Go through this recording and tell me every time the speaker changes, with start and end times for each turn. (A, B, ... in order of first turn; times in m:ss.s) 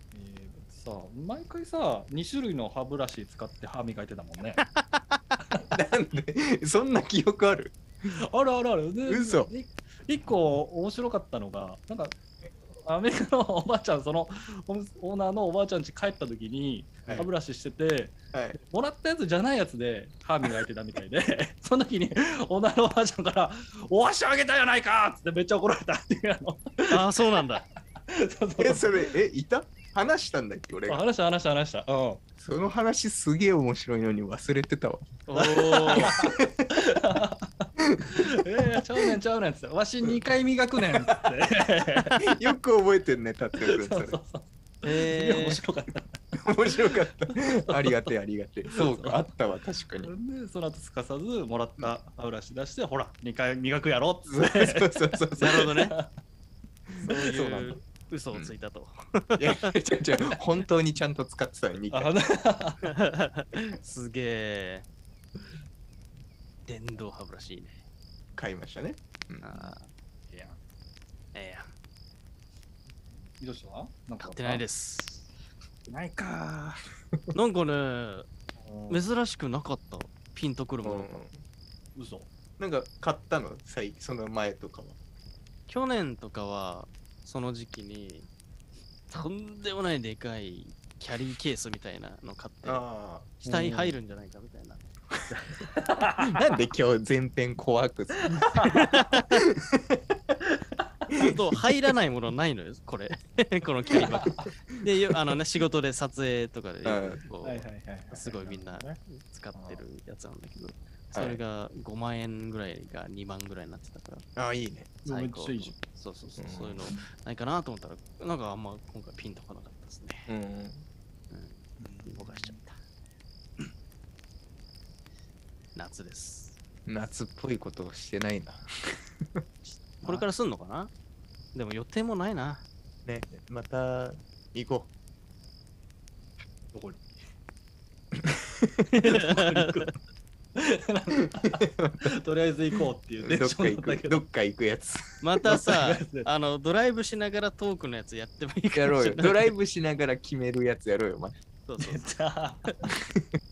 0:00.1-0:04.6 A
0:04.6-0:05.4 B
0:05.7-0:08.1 C
0:08.1-0:12.2 A
0:09.1-0:09.5 C
0:12.7-0:27.4 A
0:18.3-0:18.6 C
0:26.9-0:27.6 B
0:28.1-0:29.1 A
0:28.6-0:31.0 C
0:30.9-0:32.3 A
0:32.4-0:36.8 C
0:35.3-0:36.2 B
0:35.4-0:42.2 A
0:37.8-0:39.2 C
0:40.8-0:41.2 C
0:42.2-0:44.2 C
0:43.6-0:48.1 A
0:44.8-0:45.6 B
0:46.4-0:50.1 C
0:48.7-0:49.3 A
0:50.0-0:56.1 A
0:54.3-0:55.7 C
0:55.4-0:56.0 B
0:56.9-0:57.8 C
0:57.0-0:59.8 B
0:59.4-1:02.1 C
1:01.9-1:02.9 A
1:02.9-1:04.9 B
1:06.7-1:07.8 B
1:08.4-1:09.5 C
1:09.4-1:09.9 B
1:10.3-1:10.6 A
1:11.3-1:11.7 B
1:13.2-1:14.6 A
1:14.2-1:15.3 B
1:15.9-1:16.8 A
1:17.3-1:18.3 B
1:18.6-1:19.0 A
1:18.9-1:21.2 B
1:20.8-1:21.4 C
1:22.0-1:22.3 A
1:22.6-1:25.0 C
1:25.7-1:28.3 B
1:29.1-1:32.8 B
1:32.6-1:33.4 C
1:33.4-1:35.6 B
1:33.4-1:34.0 A
1:35.7-1:36.3 A
1:36.2-1:40.4 C
1:38.2-1:38.8 A
1:38.7-1:39.4 B
1:41.2-1:54.3 B
1:44.8-1:45.3 C
1:46.8-1:47.2 C
1:47.4-1:49.0 A
1:49.5-1:49.8 A
1:51.1-1:51.4 C
1:54.4-1:55.0 C
1:55.0-1:55.8 A
1:55.0-2:00.3 B
1:56.4-1:56.8 C
2:00.3-2:00.9 C
2:01.3-2:02.8 B
2:01.8-2:02.6 A
2:05.8-2:06.6 B
2:06.9-2:09.4 C
2:09.7-2:10.9 B
2:11.6-2:12.6 B
2:13.0-2:14.9 C
2:16.7-2:17.2 A
2:18.2-2:18.9 C
2:18.9-2:19.9 B
2:19.2-2:19.9 A
2:20.6-2:24.2 A
2:21.4-2:22.1 C
2:23.2-2:25.6 C
2:25.2-2:29.5 B
2:25.5-2:26.3 A
2:28.8-2:31.4 C
2:31.7-2:32.0 B
2:31.8-2:32.7 A